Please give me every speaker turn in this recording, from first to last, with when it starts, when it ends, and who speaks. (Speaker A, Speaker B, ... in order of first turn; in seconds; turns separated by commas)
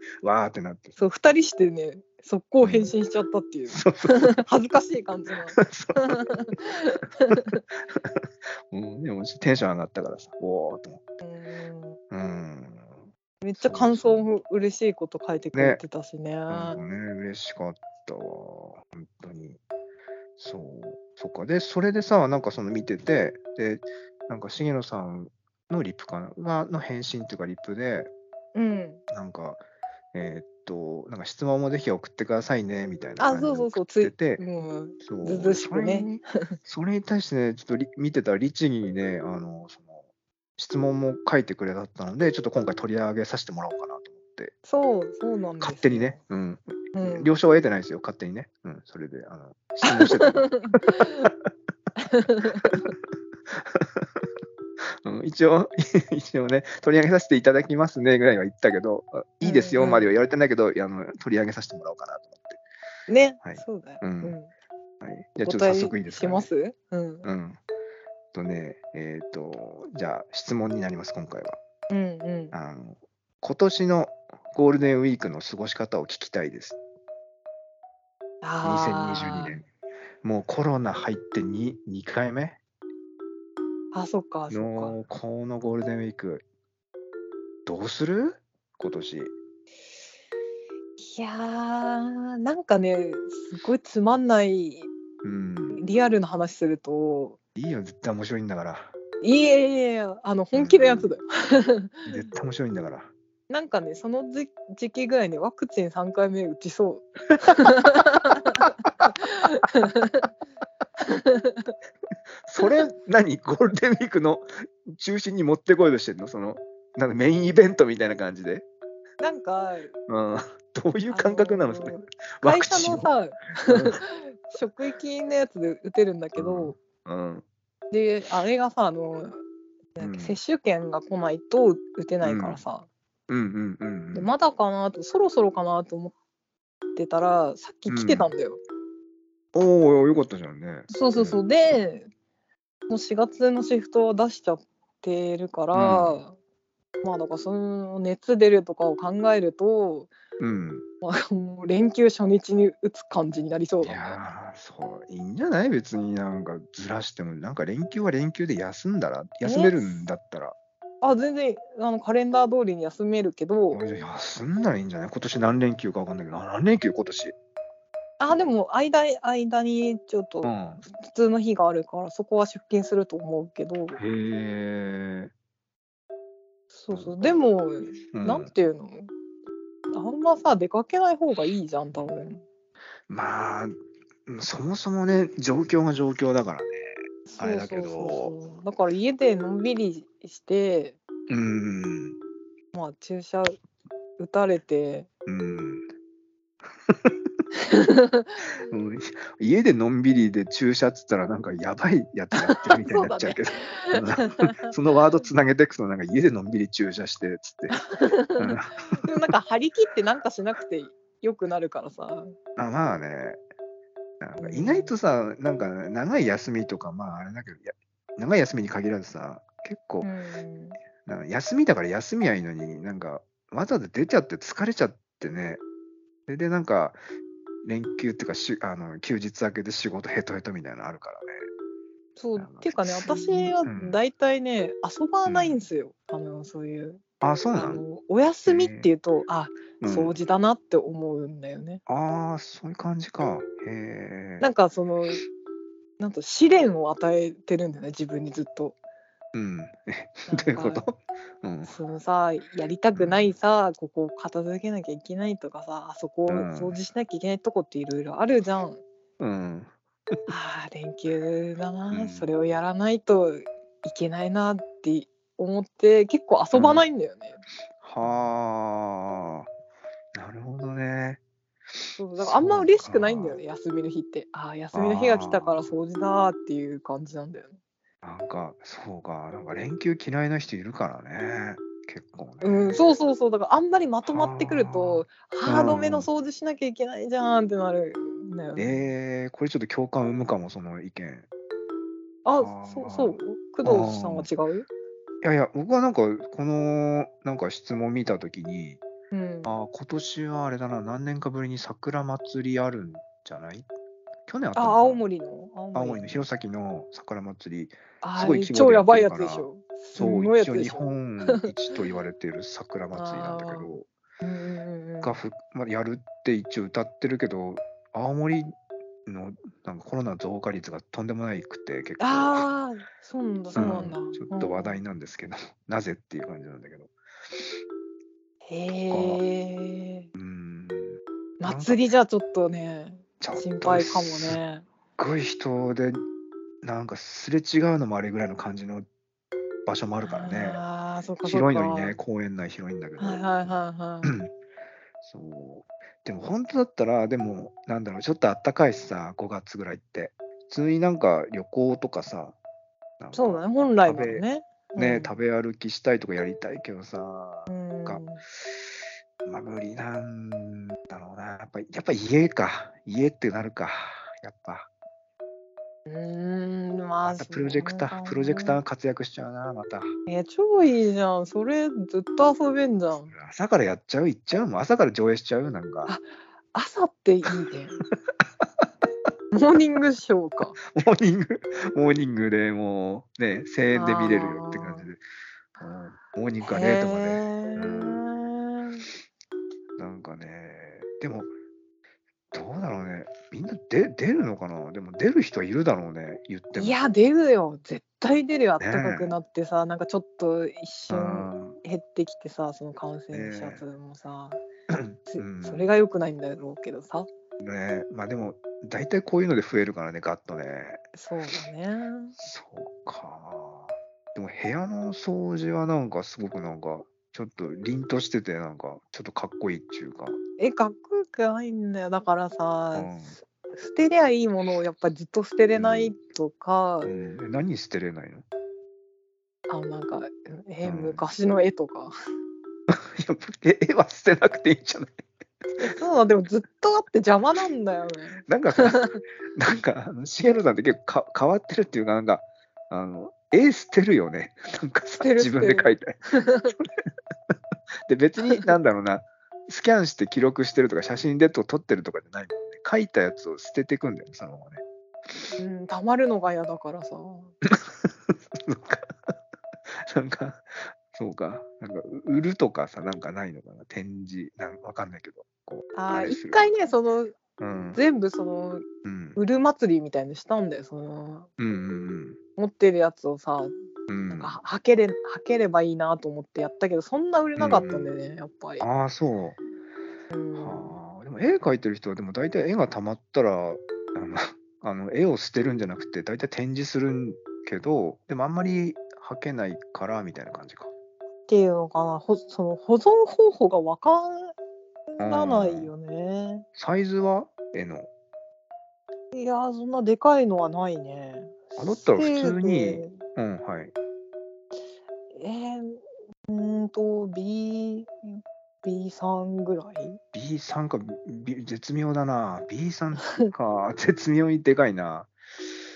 Speaker A: 0.2-1.0, Speaker B: 1.0-7.6, Speaker A: 2.6-2.9, Speaker A: 3.7-4.3, Speaker A: 5.5-6.2, Speaker A: 7.3-11.0, Speaker B: 11.2-12.0, Speaker A: 12.1-13.0, Speaker B: 13.4-16.8, Speaker A: 13.6-14.3, Speaker A: 15.5-15.8, Speaker A: 16.5-19.6, Speaker A: 20.4-28.1, Speaker B: 28.5-29.0, Speaker A: 29.1-29.6, Speaker A: 30.1-34.4, Speaker B: 33.2-36.5, Speaker A: 35.0-40.0, Speaker A: 40.6-44.5, Speaker B: 44.6-46.2, Speaker A: 45.6-51.3, Speaker B: 46.9-47.3, Speaker B: 49.8-51.3, Speaker B: 52.0-52.9, Speaker A: 53.5-54.2, Speaker A: 55.0-62.6, Speaker B: 59.4-60.1, Speaker B: 63.1-64.5, Speaker A: 63.4-64.3, Speaker A: 65.0-66.5, Speaker B: 65.4-67.3, Speaker A: 67.2-67.6, Speaker A: 68.3-71.6, Speaker B: 71.9-72.5, Speaker A: 72.5-76.8, Speaker B: 78.4-79.6, Speaker A: 78.6-79.7, Speaker A: 80.2-82.6, Speaker B: 83.9-85.0, Speaker A: 84.5-86.4, Speaker A: 87.7-89.3, Speaker B: 91.0-94.9, Speaker A: 95.2-95.8, Speaker B: 95.7-97.4, Speaker A: 97.5-98.9, Speaker B: 99.2-102.3, Speaker A: 100.5-101.1, Speaker A: 102.0-103.1, Speaker B: 103.5-110.3, Speaker B: 111.0-111.7, Speaker A: 112.5-118.7, Speaker B: 119.2-119.9, Speaker A: 120.1-123.1, Speaker B: 121.1-126.8, Speaker A: 123.7-124.0, Speaker A: 126.4-127.4, Speaker B: 127.9-129.4, Speaker B: 129.9-132.9, Speaker A: 130.0-130.4, Speaker A: 132.2-132.6, Speaker A: 133.3-134.3, Speaker B: 134.1-136.1, Speaker B: 136.9-138.6, Speaker A: 137.9-138.3, Speaker A: 139.5-141.5, Speaker B: 140.9-142.1, Speaker B: 142.9-146.3, Speaker A: 145.7-146.2, Speaker B: 147.0-150.1, Speaker A: 150.4-150.8, Speaker B: 151.0-154.0, Speaker A: 153.8-160.6, Speaker B: 159.4-160.1, Speaker B: 161.0-163.8, Speaker A: 163.7-167.3, Speaker B: 168.2-174.0, Speaker A: 170.4-170.8, Speaker A: 173.9-175.3, Speaker B: 176.7-179.1, Speaker A: 176.9-177.3, Speaker A: 178.1-178.5, Speaker B: 179.9-182.4, Speaker A: 183.1-183.8, Speaker A: 184.3-188.3, Speaker B: 187.2-191.0, Speaker A: 191.3-192.2, Speaker B: 192.7-193.6, Speaker B: 194.2-195.1, Speaker A: 195.2-195.8, Speaker A: 196.9-197.2, Speaker B: 197.6-198.7, Speaker A: 198.7-207.8, Speaker B: 202.3-204.7, Speaker B: 207.7-212.3, Speaker A: 208.4-209.2, Speaker A: 212.6-213.4, Speaker A: 214.2-220.1, Speaker B: 214.4-215.0, Speaker B: 220.0-220.8, Speaker A: 221.0-225.6, Speaker A: 226.3-227.0, Speaker A: 227.6-231.4, Speaker B: 232.2-241.8, Speaker A: 232.4-234.0, Speaker A: 235.2-235.6, Speaker A: 237.2-237.8, Speaker A: 238.5-238.9, Speaker A: 239.8-240.1, Speaker A: 241.9-244.4, Speaker B: 244.4-245.2, Speaker B: 246.0-248.8, Speaker A: 249.3-251.7, Speaker B: 250.3-250.8, Speaker B: 251.7-258.8, Speaker A: 252.9-253.3, Speaker A: 256.3-256.8, Speaker A: 259.2-260.2, Speaker B: 260.3-267.4, Speaker A: 261.9-262.3, Speaker A: 266.5-266.8, Speaker A: 267.8-269.5, Speaker A: 270.1-271.2, Speaker B: 271.9-277.5, Speaker A: 272.2-273.4, Speaker A: 274.7-275.7, Speaker A: 278.0-282.8, Speaker B: 282.4-288.9, Speaker A: 284.1-286.1, Speaker A: 288.6-291.3, Speaker B: 292.2-294.7, Speaker A: 292.4-294.3, Speaker A: 295.2-298.8, Speaker B: 299.1-299.5, Speaker A: 299.4-303.7, Speaker A: 304.3-305.0, Speaker B: 304.5-306.2, Speaker A: 305.7-313.9, Speaker B: 308.0-311.5, Speaker B: 312.9-313.7, Speaker B: 314.2-315.1, Speaker A: 315.0-318.5, Speaker A: 319.1-322.5, Speaker B: 322.0-324.8, Speaker A: 323.5-326.9, Speaker B: 328.5-330.1, Speaker A: 328.9-329.2, Speaker A: 330.1-331.8, Speaker B: 331.4-334.6, Speaker A: 333.2-334.4, Speaker A: 335.0-336.0, Speaker A: 336.6-338.9, Speaker A: 339.6-340.6, Speaker B: 340.0-342.0, Speaker A: 341.2-344.3, Speaker B: 343.0-344.1, Speaker A: 345.0-352.4, Speaker A: 353.0-354.2, Speaker B: 353.1-355.1, Speaker A: 354.8-358.0, Speaker B: 357.5-358.2, Speaker A: 359.2-364.7, Speaker B: 365.9-368.6, Speaker A: 367.0-369.9, Speaker B: 370.1-373.1, Speaker A: 373.1-375.9, Speaker B: 376.5-377.8, Speaker B: 379.3-380.6, Speaker A: 380.6-385.0, Speaker B: 383.7-384.9, Speaker A: 385.6-388.0, Speaker B: 386.4-388.9, Speaker A: 389.8-391.3, Speaker A: 392.3-396.8, Speaker B: 396.5-404.4, Speaker A: 398.6-399.1, Speaker A: 400.9-401.6, Speaker A: 403.1-403.6, Speaker A: 404.7-405.7, Speaker B: 405.1-407.1, Speaker A: 407.4-410.8, Speaker B: 410.9-412.1, Speaker A: 412.2-420.2, Speaker B: 420.4-426.9, Speaker A: 422.7-423.1, Speaker A: 425.6-425.9, Speaker A: 426.8-428.2, Speaker B: 429.5-431.9, Speaker A: 430.6-431.0, Speaker A: 432.7-435.0, Speaker B: 435.6-439.0, Speaker A: 438.3-446.0, Speaker B: 445.0-446.5, Speaker A: 447.9-454.6, Speaker B: 448.2-448.5, Speaker B: 455.4-457.3, Speaker A: 457.4-459.1, Speaker A: 459.8-466.5, Speaker B: 465.7-467.2, Speaker A: 467.4-467.8, Speaker B: 467.7-468.6, Speaker A: 468.8-469.2, Speaker B: 469.1-471.3, Speaker A: 471.4-472.2, Speaker B: 472.4-473.5, Speaker A: 473.9-474.4, Speaker B: 474.1-478.7, Speaker A: 477.4-477.9, Speaker A: 478.6-479.4, Speaker B: 480.1-480.8, Speaker A: 480.3-490.7, Speaker B: 491.3-494.3, Speaker B: 494.9-496.4, Speaker A: 495.0-495.7, Speaker A: 496.5-497.9, Speaker B: 499.1-503.0, Speaker A: 501.6-503.7, Speaker B: 505.1-510.0, Speaker A: 510.1-515.1, Speaker B: 513.0-513.3